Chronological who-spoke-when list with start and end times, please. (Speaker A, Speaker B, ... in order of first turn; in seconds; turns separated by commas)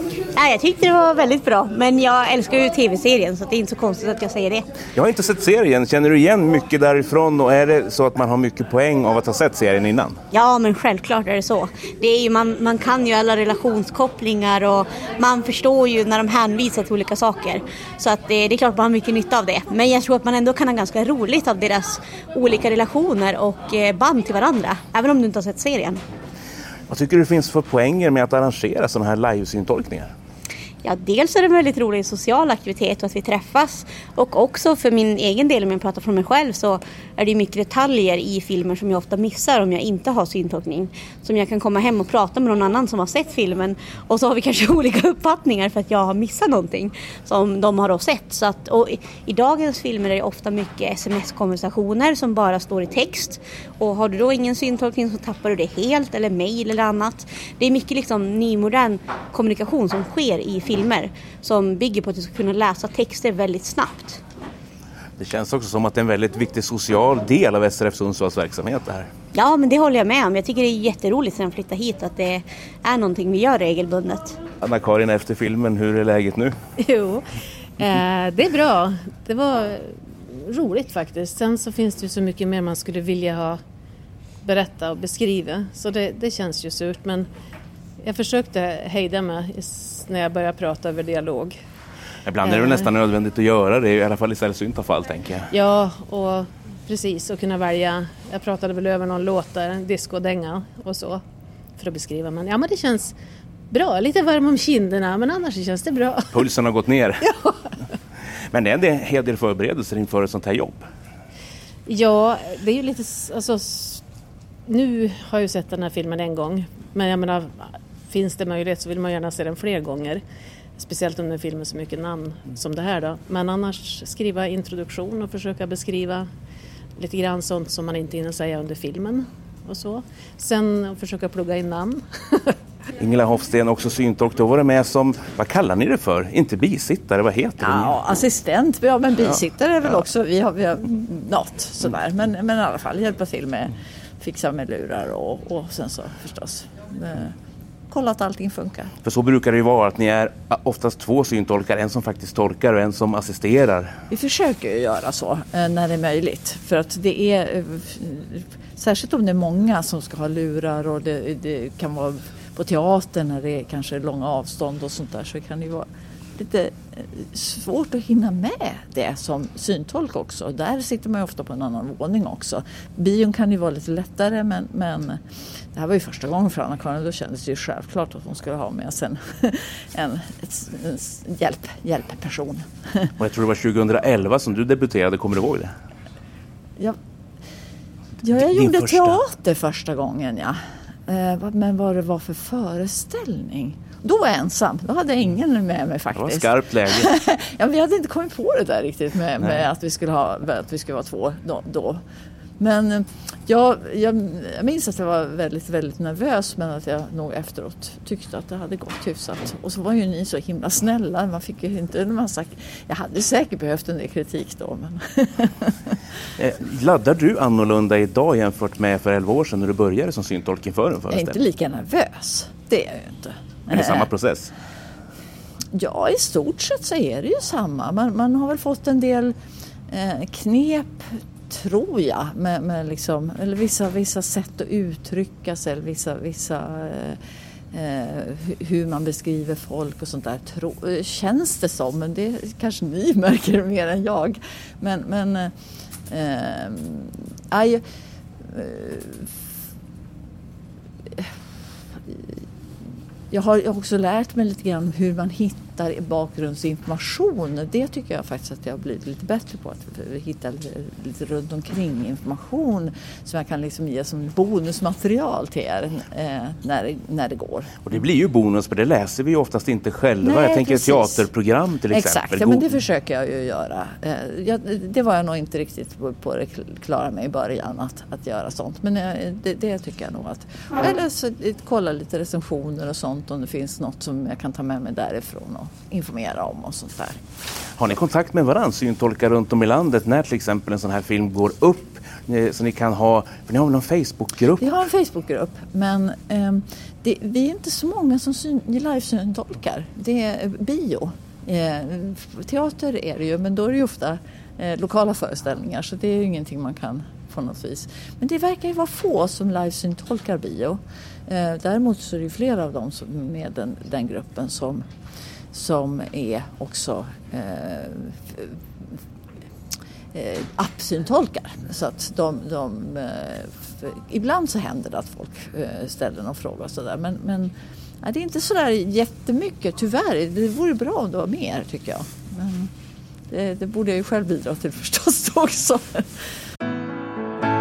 Speaker A: 0.3-4.6, Speaker B: 4.9-10.2, Speaker A: 10.3-26.0, Speaker B: 26.9-30.1, Speaker A: 30.8-64.2, Speaker B: 65.2-69.1, Speaker A: 69.3-74.4, Speaker B: 74.6-76.5, Speaker C: 76.8-77.3, Speaker C: 77.8-83.6, Speaker C: 84.4-87.3, Speaker C: 88.0-91.6, Speaker B: 92.2-95.5, Speaker C: 92.4-92.8, Speaker C: 95.5-101.2, Speaker C: 101.8-103.2, Speaker C: 103.7-106.4, Speaker B: 106.3-107.3, Speaker C: 107.2-107.5, Speaker B: 108.5-110.9, Speaker C: 111.9-114.0, Speaker C: 114.7-120.2, Speaker C: 120.8-126.3, Speaker C: 127.0-132.5, Speaker B: 133.0-137.9, Speaker D: 137.6-147.3, Speaker B: 139.2-140.0, Speaker D: 147.9-148.9, Speaker B: 149.0-153.9, Speaker D: 154.1-175.2, Speaker D: 175.7-183.1, Speaker B: 183.2-185.7, Speaker D: 188.2-202.0, Speaker B: 188.3-189.2, Speaker B: 196.1-197.1, Speaker B: 199.4-199.7, Speaker D: 202.6-215.9, Speaker B: 216.4-221.4, Speaker D: 221.1-224.1, Speaker B: 223.7-224.5, Speaker D: 225.7-229.3, Speaker D: 229.9-237.2, Speaker D: 237.7-245.5, Speaker D: 246.1-247.8, Speaker D: 248.4-249.3, Speaker D: 252.1-252.3, Speaker D: 253.3-267.8, Speaker B: 267.8-272.8, Speaker D: 270.2-271.3, Speaker D: 271.9-287.2, Speaker B: 287.8-294.8, Speaker D: 294.6-314.9, Speaker D: 315.5-318.6, Speaker D: 320.1-332.7, Speaker D: 333.3-336.1